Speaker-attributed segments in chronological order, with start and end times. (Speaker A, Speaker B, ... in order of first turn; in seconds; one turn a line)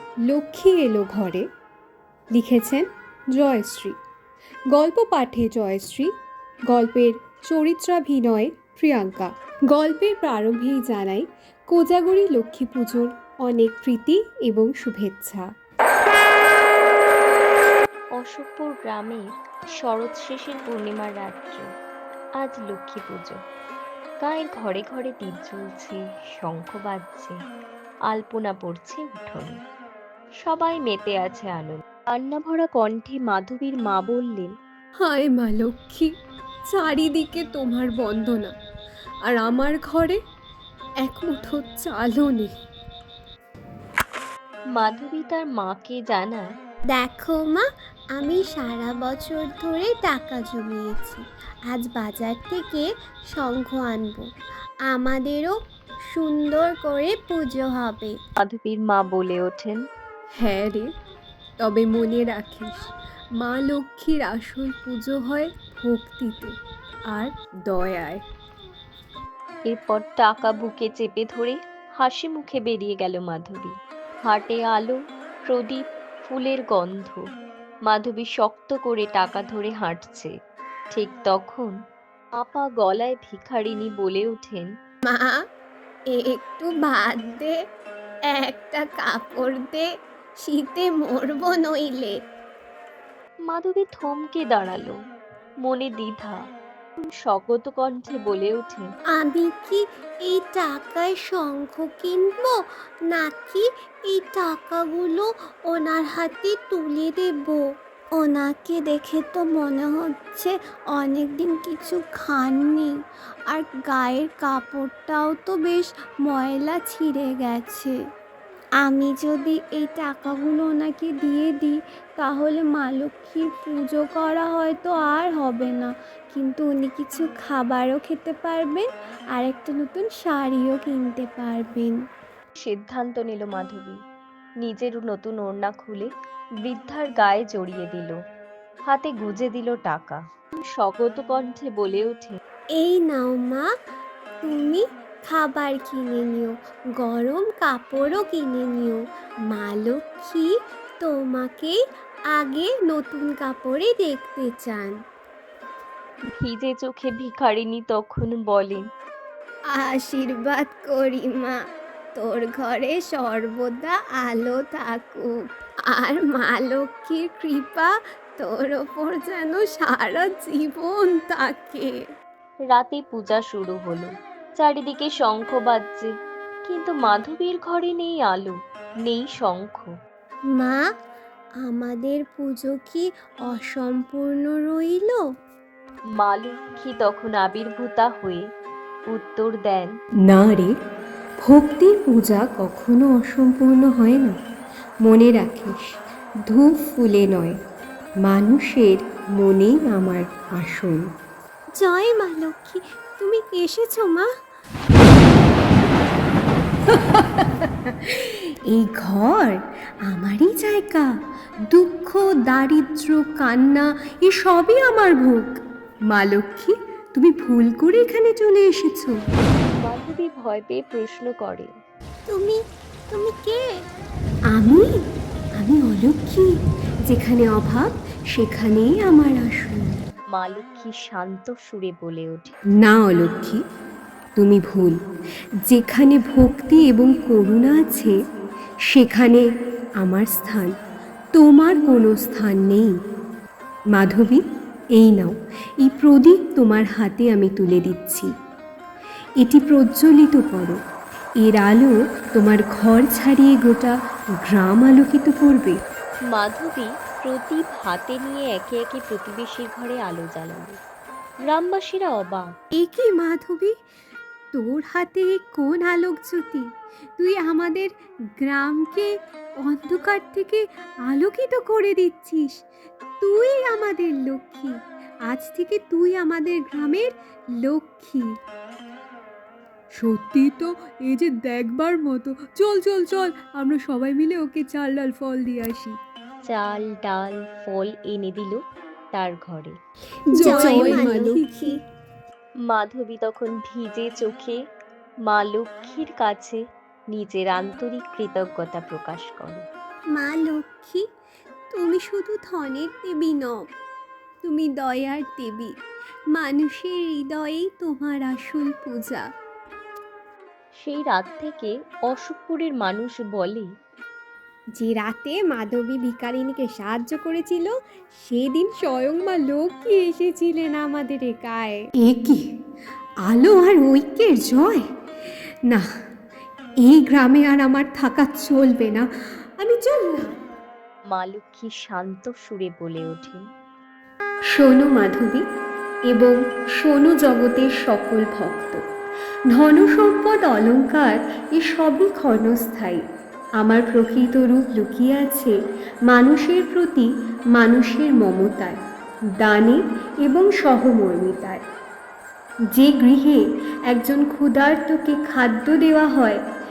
Speaker A: 0.3-1.4
Speaker A: 2.3-4.0
Speaker A: 4.7-6.1
Speaker A: 6.7-15.5
Speaker B: 18.2-19.2
Speaker B: 19.8-21.7
Speaker B: 22.4-23.4
Speaker B: 24.2-27.4
Speaker B: 28.1-29.6
Speaker B: 30.4-34.5
Speaker A: 35.0-36.1
Speaker A: 36.7-38.5
Speaker A: 39.3-40.2
Speaker A: 41.0-42.5
Speaker B: 44.7-46.5
Speaker C: 46.9-54.3
Speaker C: 54.9-55.5
Speaker C: 56.1-58.2
Speaker B: 58.4-59.8
Speaker A: 60.4-60.9
Speaker A: 61.6-66.5
Speaker A: 67.1-68.2
Speaker B: 69.7-77.2
Speaker B: 77.9-80.3
Speaker B: 80.9-81.7
Speaker B: 82.4-84.7
Speaker C: 85.1-85.4
Speaker C: 86.1-87.6
Speaker C: 88.3-89.9
Speaker C: 90.4-92.2
Speaker B: 93.5-95.0
Speaker B: 95.6-96.4
Speaker B: 97.0-98.9
Speaker C: 99.1-107.6
Speaker C: 108.2-112.9
Speaker C: 113.5-118.0
Speaker C: 118.8-132.0
Speaker B: 132.6-134.0
Speaker B: 134.6-136.1
Speaker B: 136.6-138.2
Speaker B: 138.9-142.4
Speaker C: 142.8-143.7
Speaker C: 144.4-150.5
Speaker C: 151.0-151.8
Speaker C: 152.3-154.9
Speaker B: 156.4-158.9
Speaker C: 159.7-161.6
Speaker C: 162.2-165.3
Speaker C: 165.9-171.9
Speaker B: 172.7-176.1
Speaker B: 176.7-179.9
Speaker C: 180.5-180.8
Speaker C: 181.6-185.2
Speaker B: 186.2-188.4
Speaker B: 189.1-189.9
Speaker A: 190.2-190.7
Speaker A: 191.4-194.4
Speaker A: 195.0-197.6
Speaker A: 198.2-201.0
Speaker C: 201.8-204.3
Speaker A: 206.9-211.1
Speaker A: 211.7-215.6
Speaker A: 216.1-219.2
Speaker B: 219.8-221.7
Speaker C: 222.3-223.6
Speaker A: 224.5-225.0
Speaker A: 225.6-226.5
Speaker A: 227.1-230.0
Speaker B: 230.3-232.5
Speaker A: 232.8-233.6
Speaker A: 234.4-235.0
Speaker A: 235.7-238.2
Speaker A: 238.9-239.5
Speaker A: 240.0-240.8
Speaker A: 241.3-242.9
Speaker A: 243.9-244.4
Speaker A: 244.9-248.3
Speaker A: 249.4-250.8
Speaker A: 251.4-255.8
Speaker B: 256.3-260.8
Speaker B: 261.5-262.5
Speaker A: 262.7-263.7
Speaker A: 264.5-266.7
Speaker A: 267.2-272.6
Speaker A: 273.2-278.3
Speaker A: 279.9-286.0
Speaker B: 286.4-288.6
Speaker B: 289.1-289.8
Speaker A: 290.3-291.7
Speaker C: 290.3-291.8
Speaker B: 292.6-294.6
Speaker B: 295.2-296.6
Speaker B: 297.1-299.6
Speaker C: 300.1-301.0
Speaker C: 301.7-303.6
Speaker A: 304.4-305.7
Speaker A: 306.3-309.2
Speaker B: 310.8-313.7
Speaker A: 314.8-317.7
Speaker A: 318.2-322.4
Speaker A: 323.2-324.8
Speaker A: 326.8-330.4
Speaker B: 331.1-333.4
Speaker A: 334.5-335.4
Speaker A: 336.1-338.8
Speaker A: 339.5-343.0
Speaker A: 343.6-345.6
Speaker A: 346.1-348.8
Speaker A: 349.4-351.6
Speaker A: 352.7-356.4